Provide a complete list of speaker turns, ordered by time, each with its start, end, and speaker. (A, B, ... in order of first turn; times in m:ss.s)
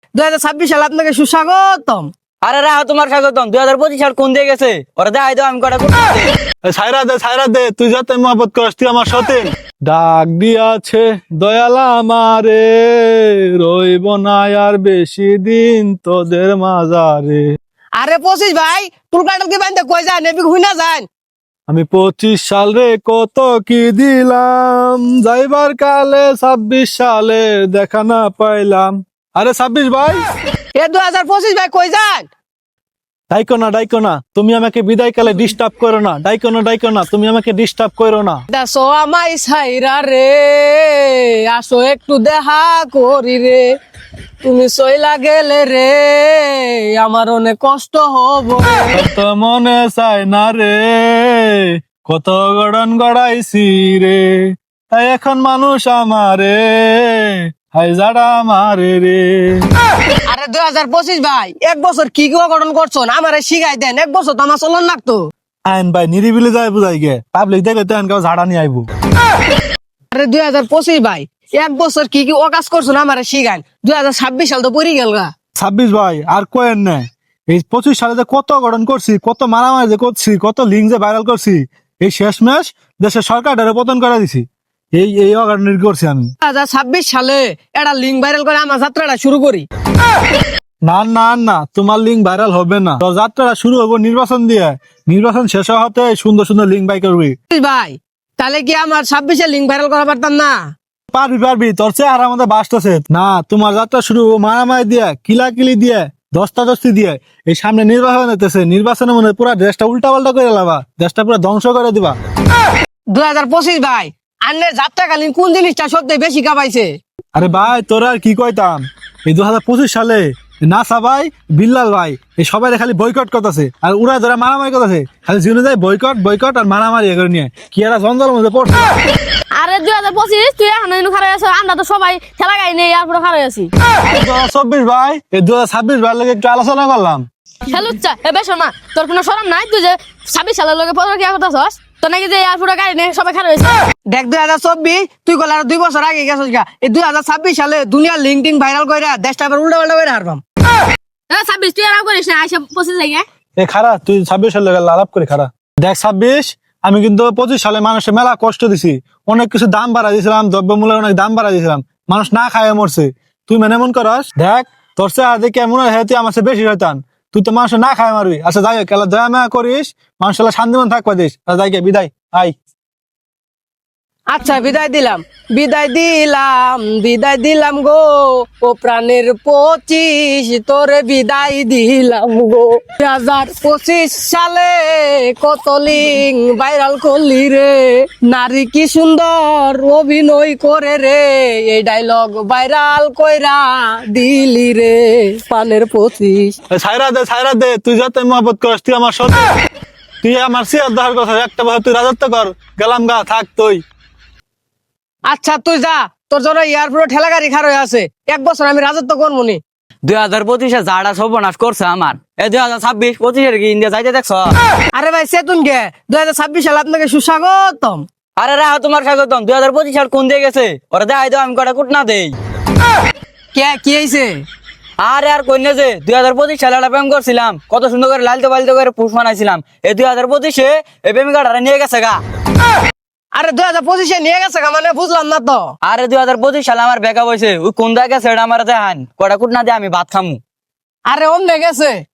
0:00.2-0:02.1 A
0:02.4-0:06.3 B
0:06.7-0:17.6 C
0:18.0-0:21.1 A
0:21.7-0:30.3 C
0:30.8-0:32.3 A
0:33.3-0:38.4 C
0:38.5-0:43.7 A
0:44.4-0:49.0 A
0:48.9-0:59.7 C
1:00.3-1:05.3 A
1:05.7-1:08.9 C
1:10.1-1:15.3 A
1:15.6-1:26.3 C
1:26.4-1:29.7 A
1:30.8-1:37.4 C
1:37.5-1:40.6 A
1:41.1-1:52.2 C
1:53.1-1:57.0 A
1:57.4-2:09.0 C
2:09.6-2:13.7 D
2:14.0-2:17.3 C
2:17.7-2:23.8 D
2:24.1-2:30.4 A
2:31.3-2:33.2 D
2:33.6-2:52.6 C
2:54.3-3:16.6 A
3:16.7-3:19.5 C
3:20.2-3:23.8 C
3:25.3-3:29.6 A
3:30.0-3:34.6 B
3:34.9-3:38.0 A
3:38.4-3:42.4 B
3:43.5-3:44.4 A
3:45.0-3:52.2 B
3:53.3-3:55.7 A
3:55.8-4:00.4 B
4:01.1-4:02.0 A